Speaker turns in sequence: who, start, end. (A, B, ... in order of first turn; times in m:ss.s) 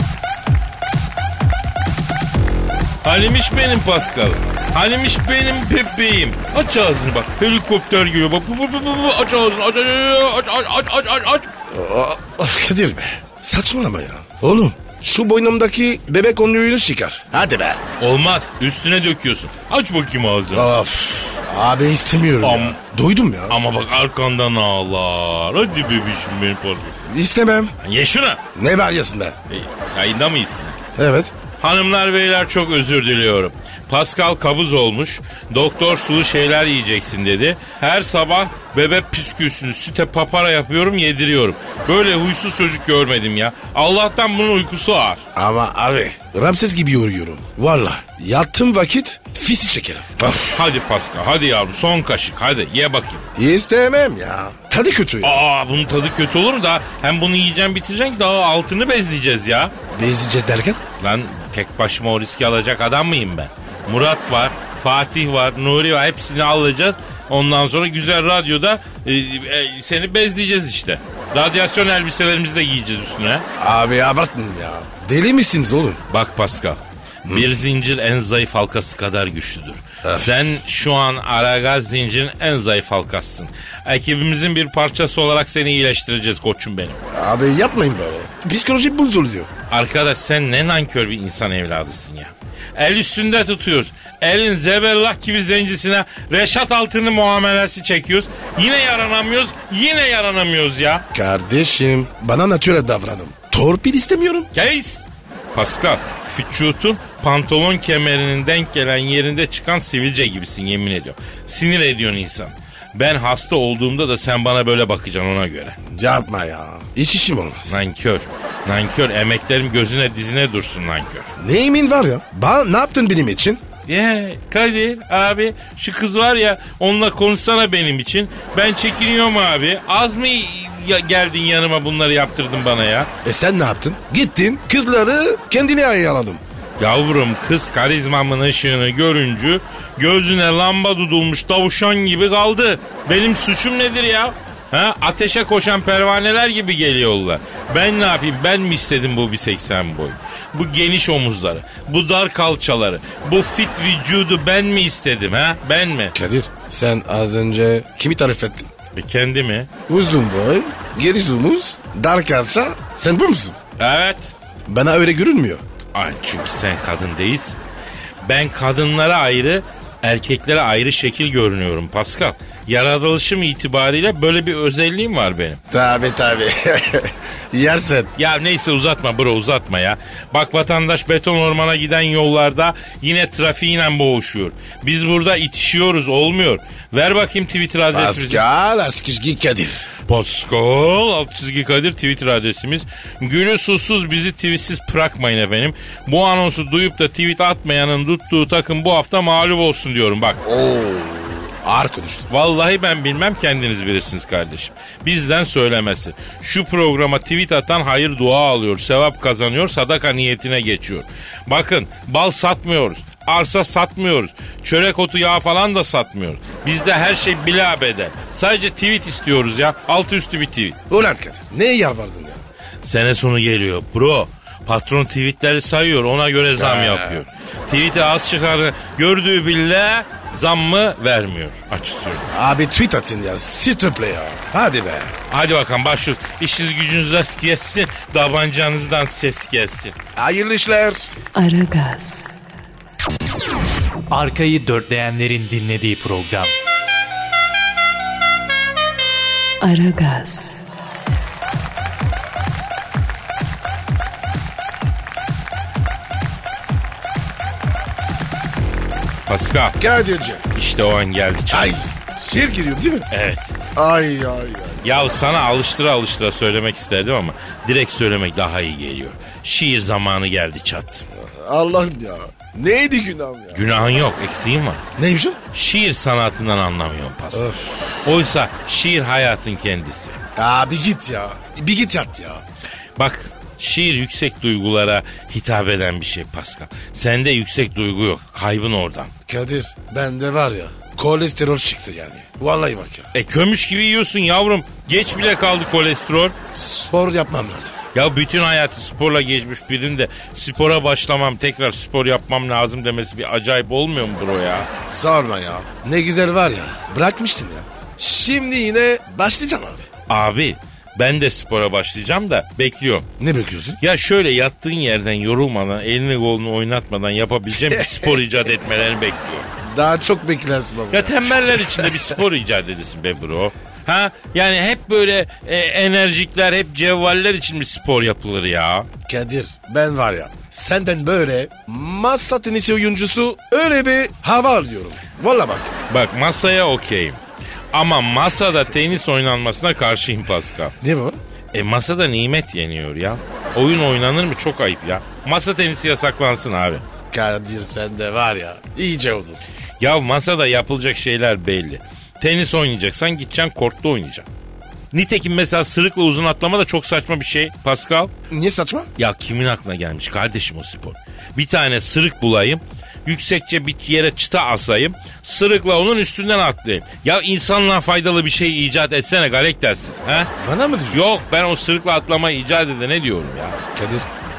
0:03.0-0:11.5 A
0:11.7-0:17.8 B
0:18.0-0:20.7 A
0:20.5-0:23.6 B
0:22.4-0:22.8 A
0:23.5-0:27.0 A
0:27.0-0:27.7 B
0:27.8-0:28.4 A
0:28.5-0:29.4 B
0:29.5-0:30.8 A
0:31.0-0:31.3 B
0:31.6-0:45.2 A
0:45.3-0:50.6 B
0:50.5-0:53.2 A
0:53.4-0:55.4 B
0:55.2-0:59.7 A
0:59.9-1:00.8 B
1:01.0-1:13.4 A
1:13.6-1:16.0 B
1:16.1-1:27.0 A
1:17.3-1:17.5 B
1:20.0-1:20.4 B
1:27.1-1:29.5 B
1:29.7-1:41.0 A
1:41.1-1:44.5 B
1:44.5-1:55.8 A
1:55.8-1:57.8 B
1:57.7-2:01.3 A
2:01.4-2:03.6 B
2:03.9-2:13.1 A
2:13.2-2:16.4 B
2:16.8-2:36.1 A
2:36.1-2:38.7 B
2:39.0-2:39.7 A
2:39.9-2:43.6 B
2:43.8-2:44.3 A
2:44.7-2:45.6 B
2:45.9-2:47.6 A
2:48.2-2:55.6 A
2:55.7-2:58.1 B
2:58.2-3:08.4 A
3:07.9-3:09.9 B
3:10.0-3:20.4 A
3:20.4-3:22.3 B
3:22.3-3:40.8 A
3:40.9-3:42.4 B
3:42.8-3:52.3 A
3:46.6-3:47.2 B
3:52.3-3:55.1 B
3:55.3-3:59.9 A
4:00.2-4:01.0 B
4:01.3-4:02.3 C
4:04.1-4:06.5 D
4:09.6-4:10.6 C
4:19.3-4:19.8 A
4:19.8-4:20.4 B
4:20.5-4:21.8 A
4:21.5-4:23.1 B
4:23.1-4:23.6 A
4:23.7-4:25.0 B
4:24.8-4:31.0 A
4:31.1-4:33.6 B
4:33.5-4:34.8 A
4:35.0-4:35.4 B
4:35.5-4:37.5 A
4:37.3-4:37.7 B
4:38.0-4:40.2 A
4:40.4-4:42.4 B
4:43.0-4:49.1 A
4:49.3-4:53.1 B
4:53.1-4:56.3 A
4:56.5-4:57.8 B
4:57.9-5:04.7 A
5:04.9-5:09.8 B
5:10.1-5:13.1 A
5:13.2-5:13.8 B
5:13.8-5:19.5 A
5:17.5-5:18.2 B
5:19.6-5:22.2 B
5:20.9-5:28.9 A
5:29.1-5:35.8 B
5:35.9-5:37.2 A
5:37.7-5:40.7 A
5:40.8-5:41.2 B
5:41.5-5:46.8 A
5:47.1-5:49.4 B
5:49.8-5:54.3 A
5:54.9-5:58.1 A
5:58.3-5:58.9 B
5:59.0-6:10.3 A
6:10.4-6:11.0 B
6:10.9-6:13.6 A
6:13.7-6:14.1 B